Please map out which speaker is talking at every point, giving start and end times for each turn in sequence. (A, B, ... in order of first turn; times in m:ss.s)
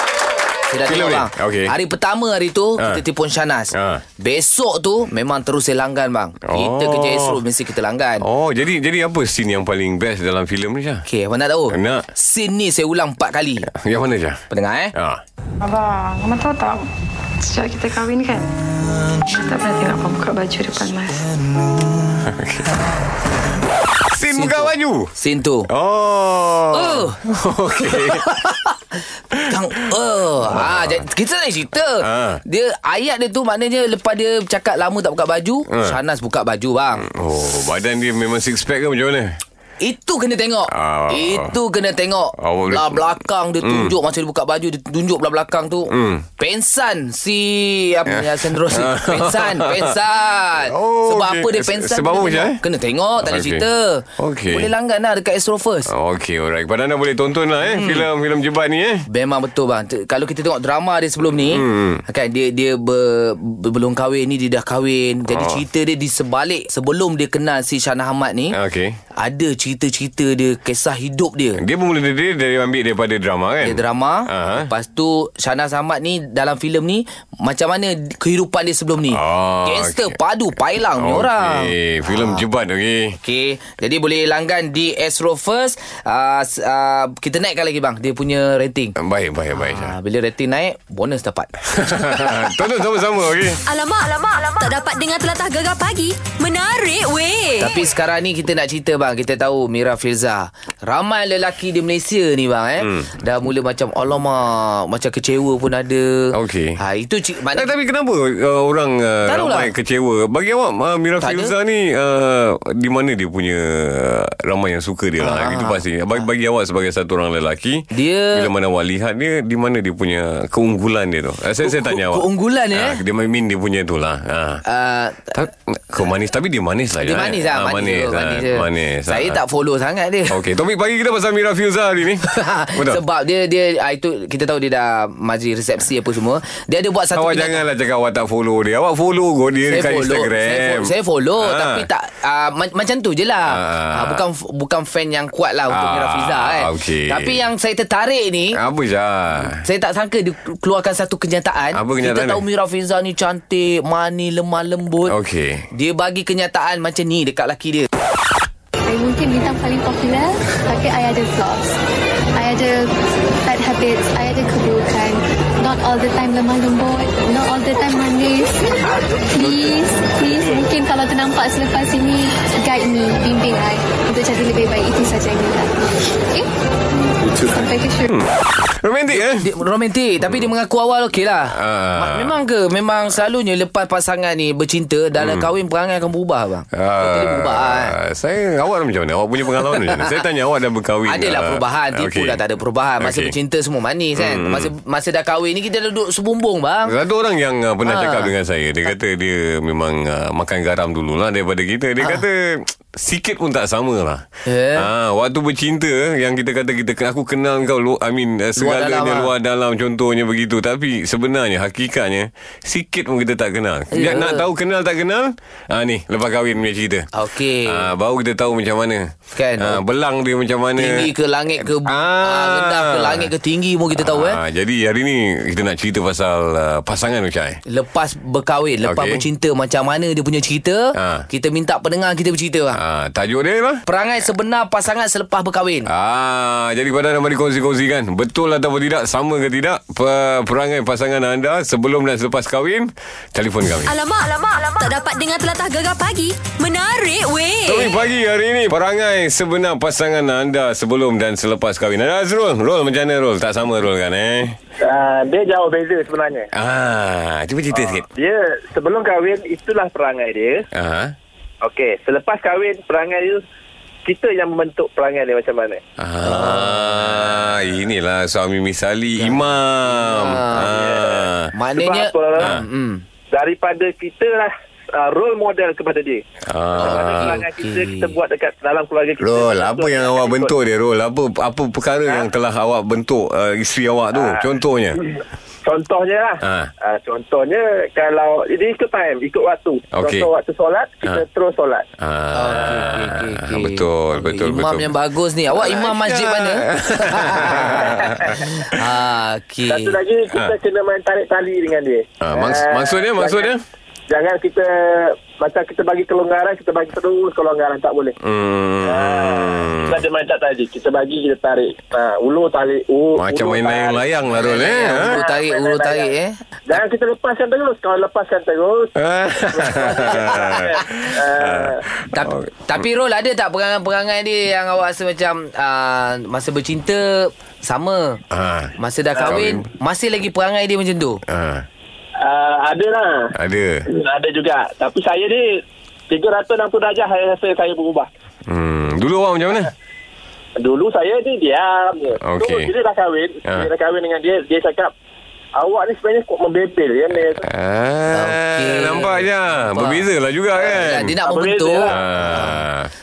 0:00.7-0:08.2 A
0:00.8-0:01.7 B
0:02.8-0:03.0 B
0:03.7-0:04.0 B
0:06.4-0:07.4 B
0:08.2-0:11.0 B
0:11.0-0:13.7 A
0:11.7-0:12.1 B
0:13.6-0:14.4 B
0:14.5-0:14.9 A
0:14.9-0:15.2 B
0:15.6-0:16.8 C
0:17.4-0:18.5 C
0:19.2-0:21.3 C
0:22.1-0:22.9 B
0:24.0-0:25.1 B
0:24.3-0:25.7 A
0:25.7-0:28.5 B
0:26.7-0:27.2 A
0:27.8-0:28.5 A
0:29.3-0:29.9 B
0:29.4-0:37.0 A
0:30.5-0:31.0 B
0:32.0-0:32.4 B
0:35.7-0:36.0 B
0:37.0-0:39.4 B
0:39.8-0:55.9 A
0:40.7-0:41.6 B
0:42.4-0:43.1 B
0:43.6-0:44.0 B
0:45.9-0:46.2 B
0:48.1-0:52.6 B
0:53.2-0:54.7 B
0:55.9-0:59.0 B
0:57.6-0:58.1 A
0:59.1-1:08.5 A
1:01.5-1:02.0 B
1:05.3-1:05.6 B
1:08.5-1:09.0 B
1:09.2-1:11.6 A
1:11.6-1:14.7 B
1:13.6-1:22.4 A
1:19.1-1:20.2 B
1:20.9-1:23.2 B
1:23.2-1:29.0 A
1:29.0-1:29.9 B
1:29.6-1:32.5 A
1:31.7-1:33.6 B
1:33.6-1:37.8 D
1:37.6-1:47.7 A
1:42.8-1:43.1 B
1:46.3-1:46.8 B
1:47.5-2:04.6 B
1:49.2-1:49.7 A
1:51.2-1:51.5 A
1:55.2-1:55.8 A
1:57.9-1:58.5 A
2:01.6-2:03.0 A
2:04.6-2:05.4 A
2:05.4-2:09.4 B
2:07.0-2:10.4 A
2:10.3-2:13.0 B
2:12.2-2:17.6 A
2:17.1-2:21.9 B
2:19.6-2:28.6 A
2:23.4-2:24.2 B
2:25.7-2:27.4 B
2:28.5-2:29.6 B
2:29.6-2:35.2 A
2:31.7-2:32.4 B
2:35.1-2:35.7 B
2:35.7-2:37.9 A
2:38.9-2:41.8 E
2:42.4-2:42.9 E
2:43.4-2:55.7 E
2:48.9-2:49.8 F
2:57.2-2:58.1 E
2:58.1-2:59.5 B
2:59.1-3:07.9 A
3:01.5-3:02.4 B
3:05.2-3:05.5 B
3:06.7-3:12.4 B
3:09.5-3:10.2 A
3:11.0-3:16.9 A
3:13.0-3:13.3 B
3:14.2-3:14.7 B
3:16.8-3:24.2 B
3:17.8-3:18.3 A
3:24.4-3:24.9 A
3:24.8-3:37.1 B
3:28.6-3:29.3 A
3:33.9-3:34.5 A
3:37.1-3:37.9 A
3:37.6-3:43.3 B
3:39.3-3:39.8 A
3:40.8-3:44.4 A
3:43.9-3:47.6 B
3:47.6-3:52.8 A
3:48.8-3:49.2 B
3:50.9-3:51.2 B
3:52.7-3:53.8 B
3:53.8-3:55.9 A
3:55.8-4:03.9 B
4:03.8-4:08.0 D
4:07.6-4:14.5 B
4:14.8-4:16.5 F
4:16.5-4:18.0 B
4:17.7-4:20.6 F
4:20.7-4:21.1 B
4:21.6-4:23.4 F
4:24.0-4:25.8 F
4:26.0-4:31.5 B
4:26.2-4:27.5 A
4:29.2-4:30.7 A
4:30.6-4:32.6 F
4:31.5-4:33.0 A
4:33.3-4:36.2 F
4:36.4-4:37.4 B
4:36.8-4:38.1 A
4:36.8-4:40.5 F
4:39.2-4:45.0 B
4:44.1-4:51.8 F
4:46.4-4:46.7 B
4:49.9-4:50.3 B
4:52.0-4:54.9 B
4:52.3-5:00.0 A
4:55.6-4:58.5 B
4:59.7-5:03.5 F
5:02.2-5:03.6 B
5:04.1-5:08.1 F
5:08.2-5:10.0 B
5:08.8-5:16.1 F
5:13.2-5:15.2 B
5:14.4-5:16.3 A
5:16.7-5:18.9 F
5:19.0-5:22.5 B
5:19.5-5:21.8 F
5:20.8-5:21.1 A
5:22.1-5:28.2 A
5:28.3-5:29.6 B
5:28.8-5:31.2 A
5:29.2-5:29.4 F
5:31.3-5:31.6 B
5:32.2-5:33.3 F
5:33.4-5:33.8 B
5:33.9-5:35.4 F
5:36.1-5:38.1 F
5:38.5-5:39.7 B
5:40.6-5:44.9 F
5:42.2-5:42.7 B
5:43.4-5:43.7 B
5:45.6-5:47.4 F
5:47.4-5:51.2 B
5:48.1-5:50.1 A
5:50.7-5:52.6 A
5:50.7-5:52.0 F
5:51.9-5:52.9 B